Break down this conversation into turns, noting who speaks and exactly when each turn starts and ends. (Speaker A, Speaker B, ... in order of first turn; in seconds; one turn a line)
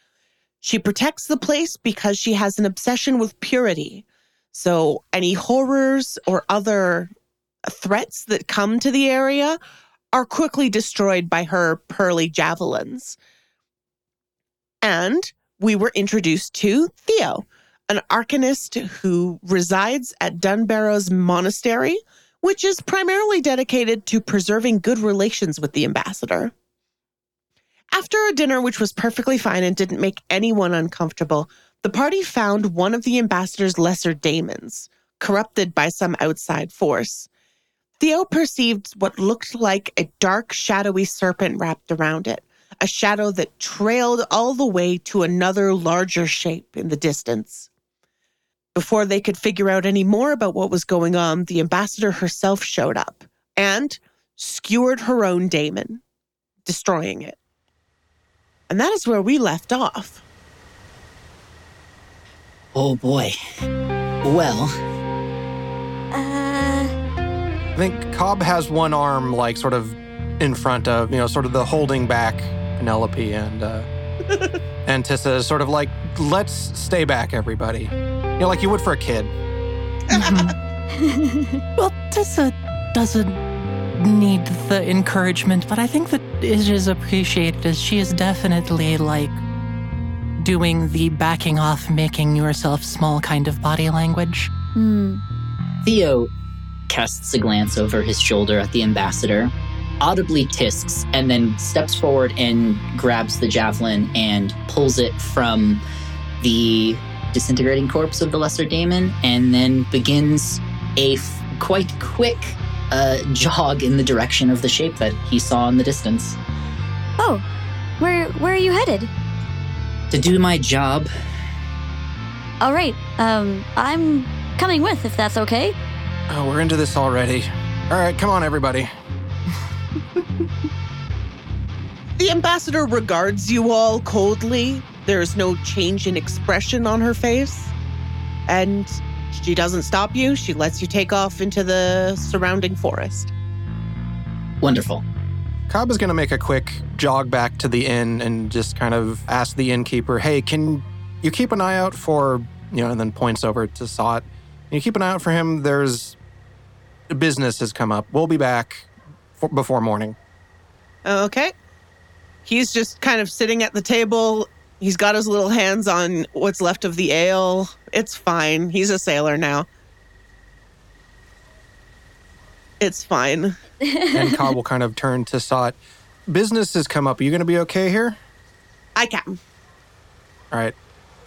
Speaker A: 0.6-7.1
Speaker A: 7.7-9.6
Speaker A: 10.1-13.2
Speaker A: 14.8-26.5
Speaker A: 27.9-37.3
Speaker A: 38.0-47.7
Speaker A: 48.7-56.0
Speaker A: 56.6-57.4
Speaker A: 58.7-60.2
Speaker B: 62.7-63.4
Speaker B: 64.2-64.7
Speaker C: 66.1-66.9
Speaker D: 67.7-73.9
Speaker D: 74.8-79.3
Speaker E: 80.1-80.5
Speaker C: 81.0-81.6
Speaker E: 81.8-83.4
Speaker E: 83.9-89.4
Speaker E: 90.4-94.5
Speaker C: 94.7-95.2
Speaker B: 95.8-96.3
Speaker B: 96.9-105.8
Speaker B: 106.4-116.4
Speaker C: 117.2-117.4
Speaker C: 118.0-119.1
Speaker B: 120.1-121.1
Speaker C: 122.6-125.8
Speaker D: 126.3-128.9
Speaker A: 132.2-137.7
Speaker A: 138.5-143.3
Speaker B: 144.6-145.0
Speaker D: 145.7-156.2
Speaker D: 157.1-158.8
Speaker D: 159.4-160.2
Speaker A: 161.0-161.5
Speaker A: 162.4-169.7
Speaker A: 172.8-173.6
Speaker D: 174.1-175.8
Speaker D: 176.3-178.2
Speaker A: 178.9-179.4
Speaker D: 180.5-180.8